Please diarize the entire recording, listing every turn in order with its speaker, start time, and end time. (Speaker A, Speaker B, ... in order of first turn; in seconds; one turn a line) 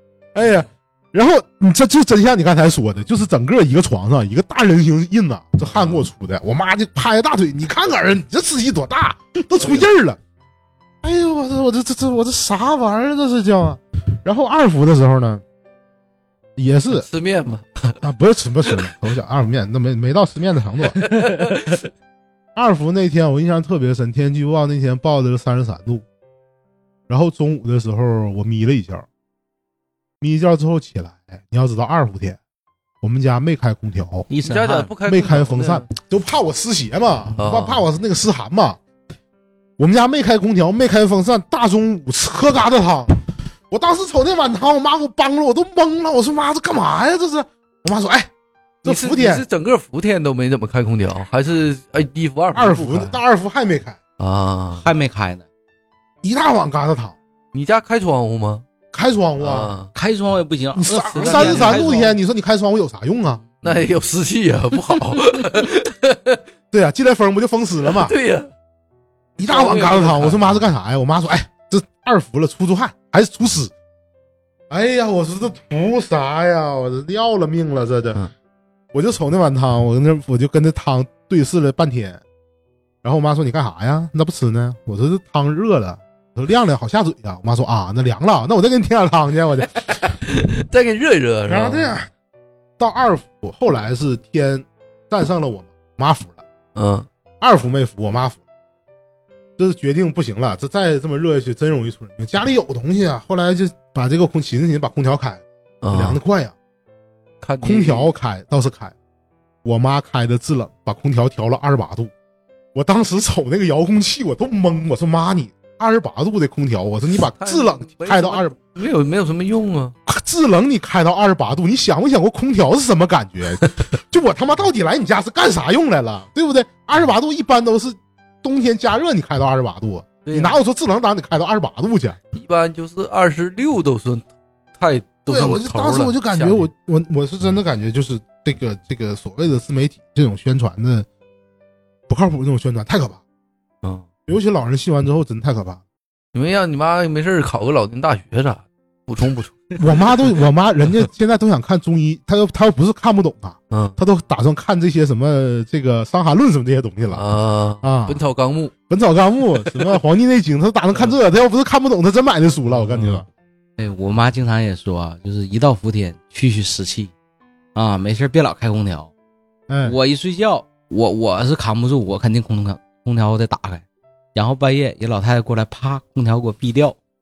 Speaker A: 0.3-10.2
Speaker B: 5.7-6.0
Speaker A: 11.0-15.4
Speaker A: 16.6-17.1
Speaker B: 16.9-18.0
Speaker A: 18.0-21.0
Speaker B: 21.0-21.8
Speaker A: 22.6-26.0
Speaker A: 27.1-29.1
Speaker A: 30.2-32.4
Speaker A: 33.0-34.3
Speaker C: 34.3-35.0
Speaker B: 34.4-35.9
Speaker A: 35.0-38.8
Speaker B: 37.4-37.8
Speaker A: 39.8-48.3
Speaker A: 48.8-49.5
Speaker B: 48.9-53.2
Speaker A: 52.5-54.0
Speaker B: 54.2-54.9
Speaker C: 54.8-55.5
Speaker A: 56.2-57.2
Speaker B: 57.5-58.6
Speaker A: 58.9-59.8
Speaker B: 59.4-59.9
Speaker C: 59.9-62.1
Speaker A: 60.8-63.4
Speaker B: 61.1-62.0
Speaker B: 63.6-66.4
Speaker A: 66.7-68.2
Speaker B: 67.9-68.5
Speaker A: 69.4-73.7
Speaker B: 69.4-70.6
Speaker A: 74.7-78.2
Speaker A: 78.9-82.2
Speaker A: 83.0-89.9
Speaker B: 90.0-92.0
Speaker A: 91.5-92.1
Speaker A: 92.8-96.4
Speaker B: 96.8-97.1
Speaker A: 97.4-98.4
Speaker A: 99.6-106.5
Speaker B: 105.8-106.2
Speaker B: 107.4-108.1
Speaker A: 107.6-108.9
Speaker A: 109.6-112.1
Speaker A: 112.7-118.5
Speaker B: 117.3-120.0
Speaker A: 120.1-132.2
Speaker B: 130.2-130.6
Speaker B: 132.3-136.7
Speaker A: 135.3-141.1
Speaker A: 142.1-143.2
Speaker A: 144.3-145.8
Speaker B: 146.3-149.8
Speaker A: 149.8-157.2
Speaker B: 153.7-154.0
Speaker B: 157.1-158.7
Speaker A: 157.8-158.2
Speaker A: 158.9-163.2
Speaker B: 162.7-163.2
Speaker C: 163.8-167.1
Speaker C: 167.8-169.1
Speaker A: 169.7-170.0
Speaker C: 169.8-173.8
Speaker C: 174.3-177.0